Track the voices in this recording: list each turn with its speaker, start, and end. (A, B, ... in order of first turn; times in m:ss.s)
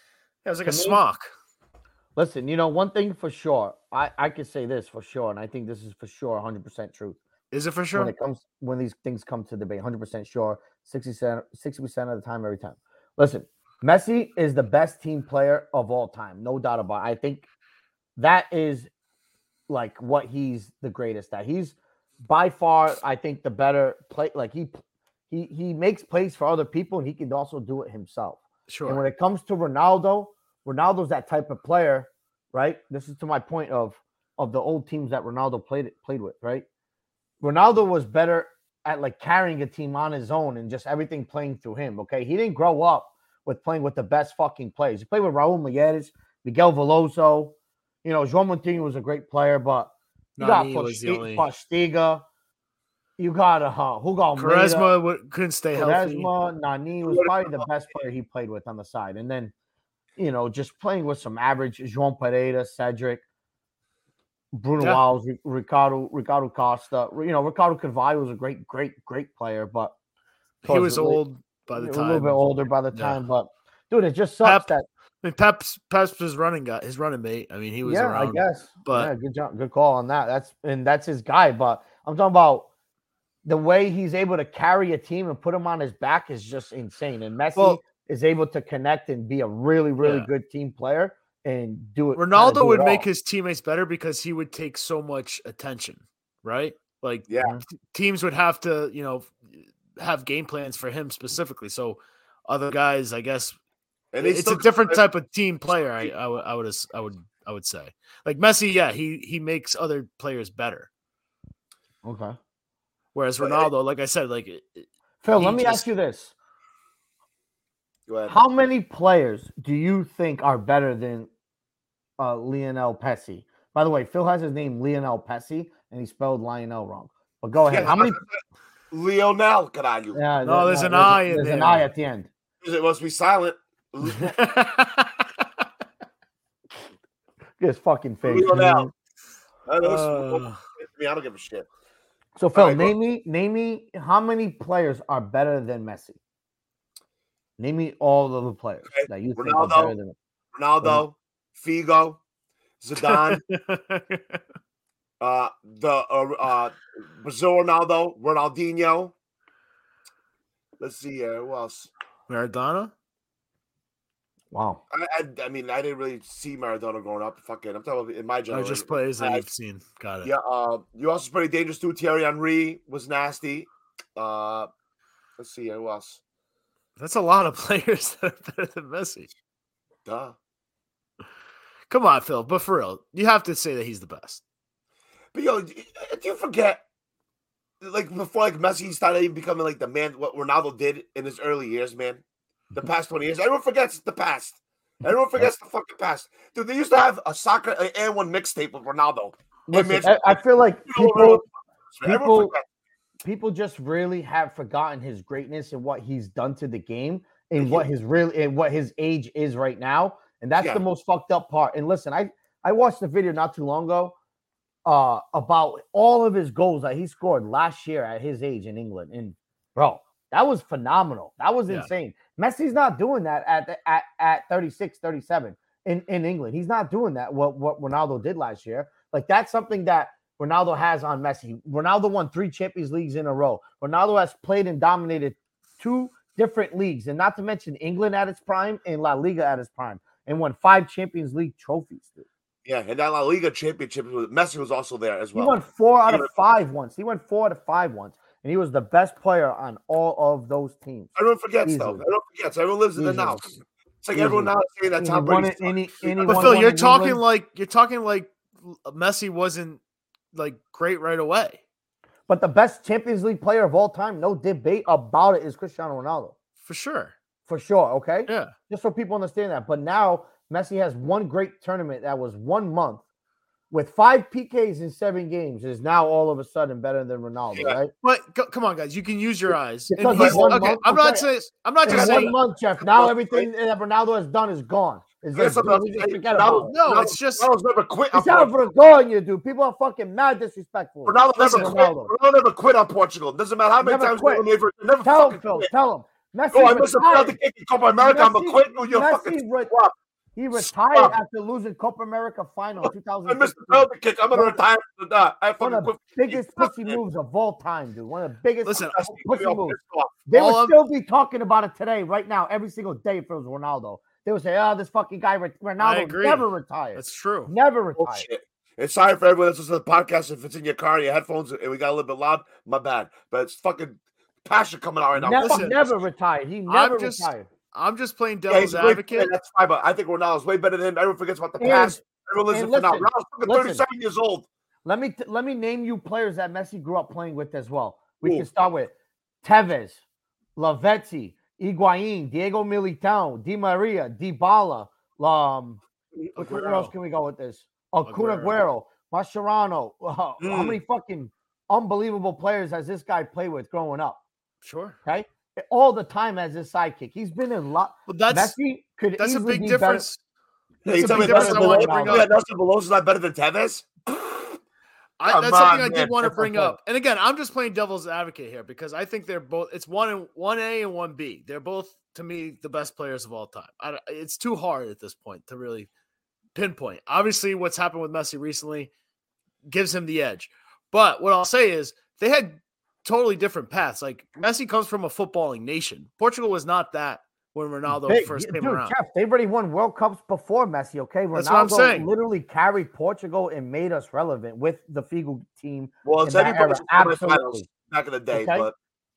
0:00.4-0:01.3 A
0:00.6-0:01.0 B
0:02.2-0:07.2 B
0:07.5-0:08.1 A
0:07.9-0:17.4 B
0:18.2-0:18.9 B
0:19.7-0:36.6 B
0:28.7-0:29.0 A
0:37.4-0:52.2 B
0:50.4-0:51.4 A
0:53.2-0:54.9 B
0:54.4-0:56.3 A
0:55.7-0:59.5 B
0:57.0-0:57.7 C
1:00.2-1:03.2 B
1:04.5-1:09.9 B
1:10.6-1:13.2 A
1:10.6-1:11.2 B
1:11.8-1:14.8 B
1:14.4-1:14.7 A
1:15.2-1:19.1 A
1:17.8-1:22.7 B
1:23.4-1:33.0 B
1:30.0-1:30.3 A
1:32.2-1:37.3 A
1:37.3-1:37.5 C
1:37.9-1:43.6 A
1:44.1-1:45.0 C
1:44.2-1:50.9 A
1:52.0-1:52.4 B
1:53.1-1:55.9 A
1:53.4-1:53.7 C
1:55.2-1:56.3 B
1:58.1-1:58.4 C
1:58.3-2:01.3 B
2:02.2-2:08.2 B
2:07.7-2:10.2 C
2:10.1-2:12.3 B
2:10.4-2:11.9 A
2:12.6-2:14.4 C
2:14.0-2:15.4 A
2:17.6-2:18.9 B
2:18.2-2:18.9 C
2:19.6-2:21.7 C
2:19.8-2:20.6 A
2:22.4-2:26.2 B
2:22.5-2:22.9 C
2:27.6-2:30.1 B
2:28.9-2:30.0 C
2:30.5-2:32.2 C
2:32.8-2:33.4 C
2:33.0-2:34.4 A
2:35.2-2:39.1 C
2:40.8-2:41.9 C
2:42.3-2:42.9 A
2:44.5-2:44.8 B
2:44.9-2:49.4 C
2:48.5-2:50.3 A
2:50.2-2:54.7 C
2:55.4-2:56.2 C
2:57.0-2:59.3 A
3:00.0-3:00.3 C
3:01.9-3:04.4 A
3:05.3-3:06.8 C
3:07.8-3:12.2 C
3:12.7-3:22.6 C
3:19.7-3:21.4 B
3:22.0-3:22.5 B
3:23.2-3:34.1 B
3:27.6-3:27.9 C
3:34.8-4:02.2 B
4:02.6-4:06.3 C
4:05.3-4:11.1 B
4:11.2-4:16.6 C
4:11.6-4:12.0 B
4:13.0-4:13.5 B
4:14.1-4:17.2 B
4:16.2-4:19.8 A
4:20.3-4:21.6 A
4:22.3-4:26.3 B
4:26.6-4:27.1 A
4:27.5-4:33.0 B
4:28.3-4:28.5 A
4:33.7-4:37.9 B
4:38.0-4:42.3 A
4:39.9-4:41.2 B
4:40.0-4:40.6 C
4:41.8-4:43.5 C
4:41.8-4:46.7 B
4:45.3-4:48.5 C
4:46.7-4:47.5 A
4:48.1-4:52.1 B
4:51.0-4:55.7 C
4:51.5-4:51.8 A
4:53.8-4:54.4 B
4:55.0-4:57.4 B
4:56.5-4:59.9 C
4:58.0-4:59.7 B
5:00.3-5:04.6 B
5:00.6-5:01.2 C
5:02.8-5:07.0 C
5:05.6-5:09.8 B
5:08.6-5:09.0 A
5:08.8-5:10.2 C
5:10.3-5:18.2 B
5:10.3-5:10.8 A
5:15.8-5:17.5 A
5:18.0-5:25.9 C
5:25.2-5:27.5 B
5:25.4-5:25.8 A
5:26.7-5:29.3 A
5:28.5-5:34.5 C
5:31.6-5:33.8 B
5:34.8-5:40.0 B
5:38.2-5:38.5 C
5:40.6-5:45.8 B
5:46.4-5:54.2 B
5:46.4-5:46.9 A
5:48.0-5:48.5 A
5:50.4-5:50.8 C
5:54.6-5:55.0 A
5:55.0-6:00.0 B
5:58.1-5:58.6 A
5:59.2-6:00.2 A
6:00.8-6:02.3 B
6:00.8-6:04.6 C
6:00.9-6:02.3 A
6:05.2-6:15.9 A
6:05.2-6:06.4 C
6:06.4-6:06.7 B
6:16.5-6:18.9 A
6:19.6-6:28.9 A
6:27.9-6:37.7 B
6:31.3-6:32.1 A
6:36.0-6:38.7 C
6:38.3-6:38.7 B